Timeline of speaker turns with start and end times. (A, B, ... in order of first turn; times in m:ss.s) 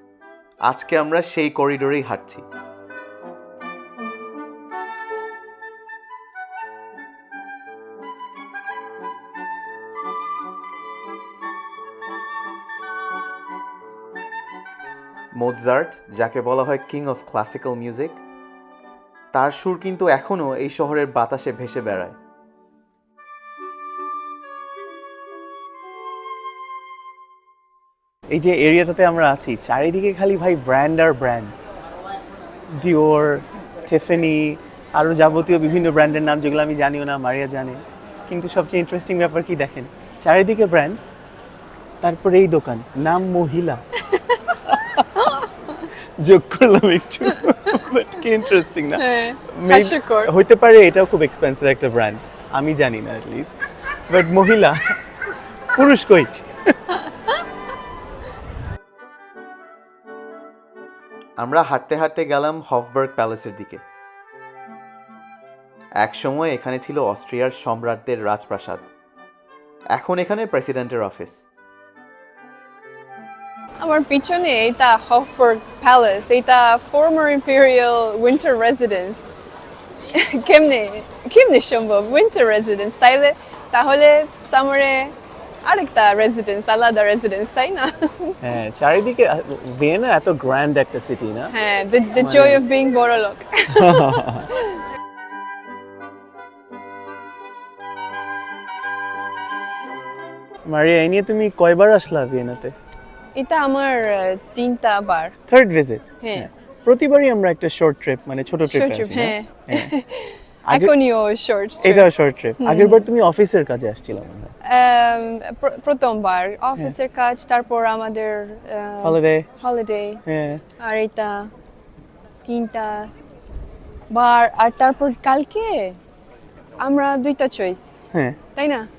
0:00.7-0:02.4 A
0:15.3-0:18.2 A
0:19.3-0:22.2 A
0:28.3-0:31.5 B
0:32.8-0:41.0 B
0:42.0-0:43.8 B
0:44.0-0:44.6 C
0:44.7-0:45.0 B
0:45.1-0:45.9 C
0:46.2-0:55.0 B
0:49.0-0:50.3 C
0:55.7-0:56.5 B
0:56.9-0:57.4 C
1:01.4-1:03.8 A
1:06.0-1:08.8 A
1:09.9-1:11.4 A
1:13.8-1:19.3 C
1:20.1-1:28.4 C
1:28.4-1:31.5 B
1:31.5-1:34.8 C
1:32.2-1:32.6 B
1:33.7-1:34.5 B
1:40.7-1:42.7 B
1:43.4-1:45.4 C
1:45.5-1:49.9 B
1:46.2-1:46.5 C
1:48.6-1:53.1 C
1:50.7-1:50.9 B
1:51.8-1:54.5 B
1:54.6-2:00.2 C
1:59.0-1:59.5 B
2:00.3-2:00.6 B
2:00.8-2:01.5 C
2:02.4-2:03.1 C
2:04.1-2:06.0 C
2:06.8-2:08.0 C
2:08.1-2:08.4 B
2:08.6-2:08.9 C